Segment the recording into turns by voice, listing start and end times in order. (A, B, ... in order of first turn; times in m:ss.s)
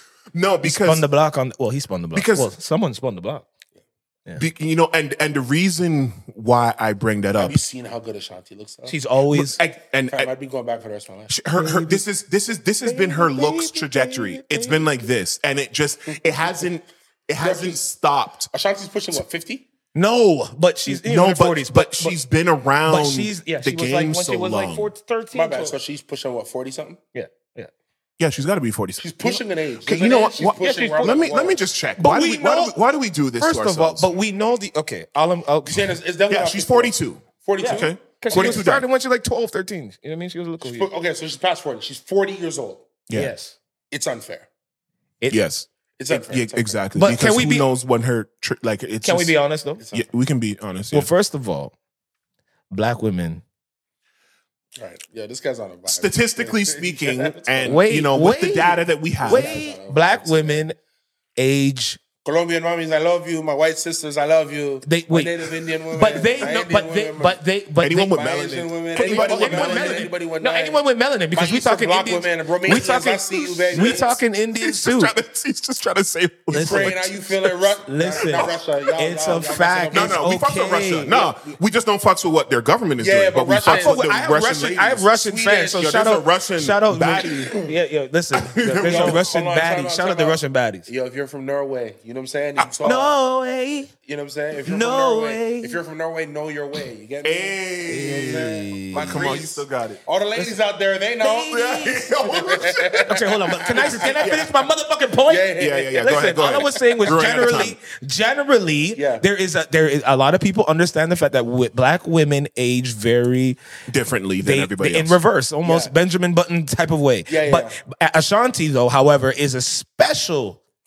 0:00.3-0:01.0 A
0:00.6-0:03.4 B
0:02.1-0:02.5 A
0:04.4-0:07.6 A
0:07.4-0:09.0 C
0:08.9-0:09.6 B
0:09.3-0:10.3 A
0:10.1-0:11.4 C
0:11.3-0:18.5 A
0:11.6-0:12.0 B
0:12.8-0:15.0 B
0:16.0-0:16.7 C
0:17.4-0:17.8 C
0:18.5-0:19.7 C
0:19.9-0:22.2 B
0:20.9-0:24.9 A
0:22.9-0:25.8 B
0:25.3-0:27.0 C
0:27.1-0:27.7 B
0:28.2-0:34.1 A
0:29.0-0:31.6 C
0:30.5-0:31.2 B
0:32.0-0:32.8 B
0:33.4-0:35.9 B
0:35.7-0:38.7 C
0:36.3-0:38.8 A
0:37.6-0:40.9 B
0:40.6-0:42.9 C
0:43.1-0:43.3 A
0:43.1-0:43.6 B
0:43.9-0:44.5 C
0:45.3-0:49.4 A
0:46.0-0:46.8 C
0:47.0-0:47.7 B
0:49.0-0:49.8 B
0:49.8-0:50.1 C
0:49.9-0:51.1 A
0:50.9-0:51.7 B
0:52.7-0:53.4 B
0:54.8-0:57.9 C
0:55.9-0:59.6 A
0:57.6-1:00.8 B
0:59.2-1:00.6 C
1:01.4-1:02.0 B
1:02.2-1:07.4 C
1:04.9-1:05.4 B
1:05.9-1:08.2 B
1:07.8-1:10.1 A
1:08.1-1:10.8 C
1:09.0-1:15.1 B
1:11.3-1:14.2 C
1:13.6-1:17.5 A
1:16.5-1:17.0 B
1:16.5-1:20.2 C
1:17.9-1:21.1 B
1:19.9-1:25.0 A
1:21.1-1:21.6 C
1:23.0-1:26.0 C
1:23.6-1:30.9 B
1:25.8-1:27.6 A
1:28.4-1:29.2 A
1:28.8-1:33.2 C
1:32.8-1:33.9 B
1:34.0-1:44.6 C
1:34.7-1:35.8 B
1:37.2-1:40.0 A
1:37.9-1:39.4 B
1:41.2-1:42.1 B
1:41.5-1:44.5 A
1:43.1-1:53.6 B
1:45.3-1:47.8 C
1:45.6-1:47.8 A
1:49.0-1:49.3 C
1:53.9-1:55.2 A
1:54.4-2:00.6 B
1:55.6-1:55.9 C
1:57.3-1:57.8 C